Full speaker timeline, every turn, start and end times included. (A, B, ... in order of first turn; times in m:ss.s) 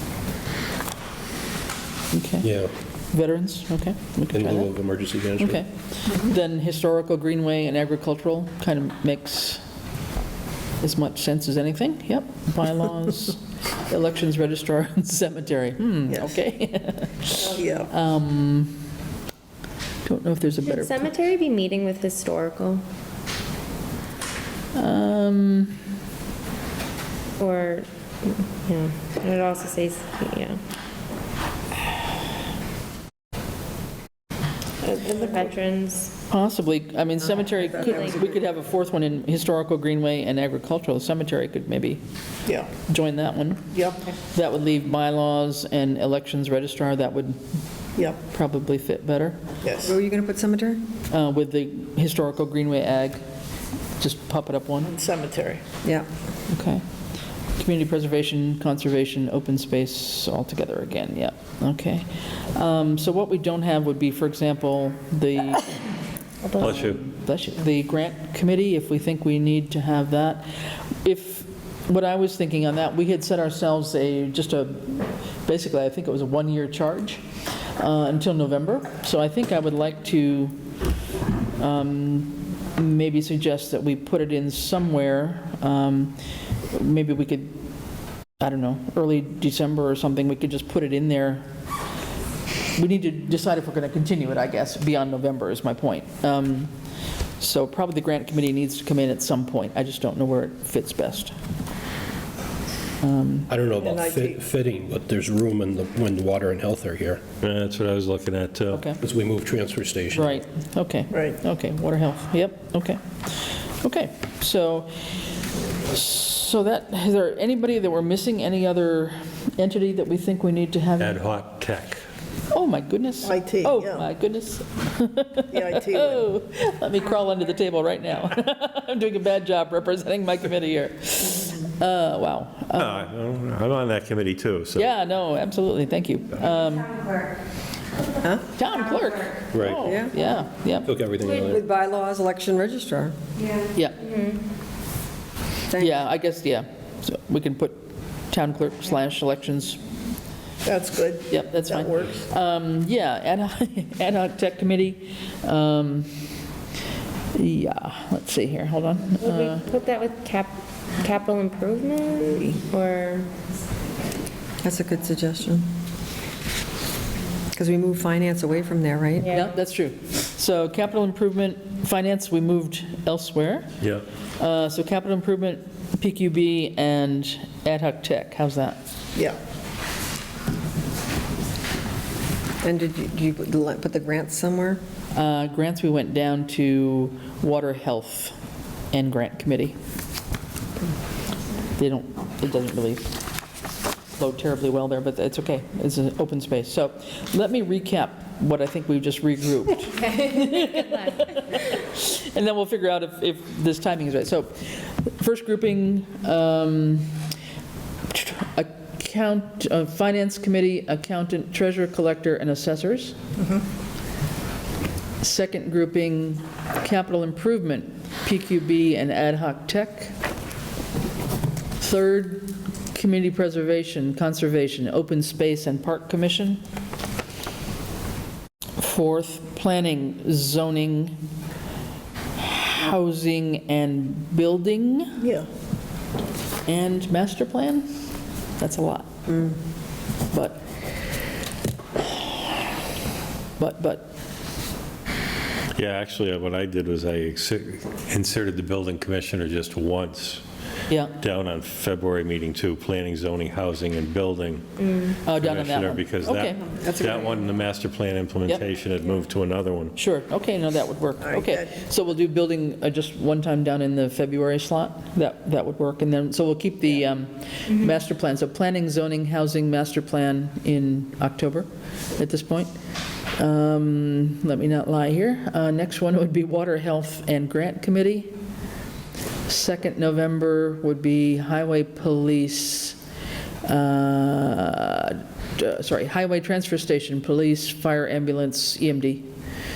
0:02.1-0:02.5 A
0:02.4-0:02.7 B
0:03.1-0:04.7 A
0:04.3-0:05.6 B
0:05.4-0:09.6 A
0:10.8-0:18.8 A
0:16.1-0:16.3 C
0:17.4-0:17.9 C
0:20.0-0:21.1 A
0:20.6-0:22.8 D
0:24.7-0:25.8 A
0:27.4-0:30.6 D
0:34.8-0:35.6 C
0:35.3-0:36.1 D
0:36.3-0:42.0 A
0:37.8-0:38.3 E
0:42.7-0:43.7 A
0:43.7-0:44.0 C
0:44.3-0:47.4 A
0:48.2-0:49.4 A
0:49.6-0:50.0 C
0:49.8-0:50.8 E
0:51.1-0:53.2 A
0:54.0-0:54.9 A
0:54.8-0:55.6 C
0:56.5-0:56.8 A
0:57.6-1:05.9 A
1:06.5-1:17.2 A
1:06.6-1:07.0 F
1:17.8-1:20.5 A
1:21.6-1:26.2 A
1:26.7-1:27.6 A
1:28.4-1:31.5 A
1:32.7-1:36.7 A
1:37.4-1:41.4 A
1:43.0-1:43.5 A
1:43.5-1:47.2 B
1:43.8-1:44.4 C
1:47.4-1:48.9 F
1:48.7-1:49.0 A
1:49.0-1:50.4 B
1:50.1-1:55.1 A
1:55.9-2:01.2 A
2:01.0-2:02.0 F
2:02.5-2:13.1 A
2:03.2-2:04.1 C
2:05.5-2:06.3 C
2:12.7-2:14.9 F
2:14.8-2:17.2 A
2:18.2-2:18.5 E
2:18.5-2:20.9 A
2:19.5-2:19.9 F
2:19.8-2:20.1 E
2:20.8-2:21.7 B
2:21.5-2:23.2 E
2:23.7-2:24.1 A
2:24.0-2:24.4 D
2:25.8-2:29.8 A
2:30.6-2:32.2 C
2:31.3-2:36.1 A
2:37.3-2:39.6 A
2:39.2-2:43.3 D
2:44.6-2:45.6 E
2:47.5-2:49.3 E
2:49.3-2:53.8 A
2:54.4-2:58.8 A
3:02.6-3:04.8 E
3:05.1-3:08.3 A
3:08.9-3:09.8 A
3:11.8-3:13.2 A
3:14.1-3:27.1 A
3:28.1-3:33.2 A
3:35.2-3:40.1 A
3:41.8-3:46.6 A
3:48.8-3:51.2 A
3:52.4-3:55.2 A
3:55.2-3:55.5 C
3:56.6-3:57.9 A
3:58.6-3:59.1 A
3:59.3-3:59.6 E
4:00.3-4:00.6 A
4:03.6-4:04.1 A
4:05.7-4:10.4 F
4:10.9-4:11.2 A
4:11.2-4:19.9 F
4:15.2-4:16.6 A
4:16.8-4:17.4 E
4:20.0-4:32.7 A
4:21.2-4:21.8 C
4:33.4-4:38.3 A
4:39.4-4:43.0 A
4:43.6-4:49.2 A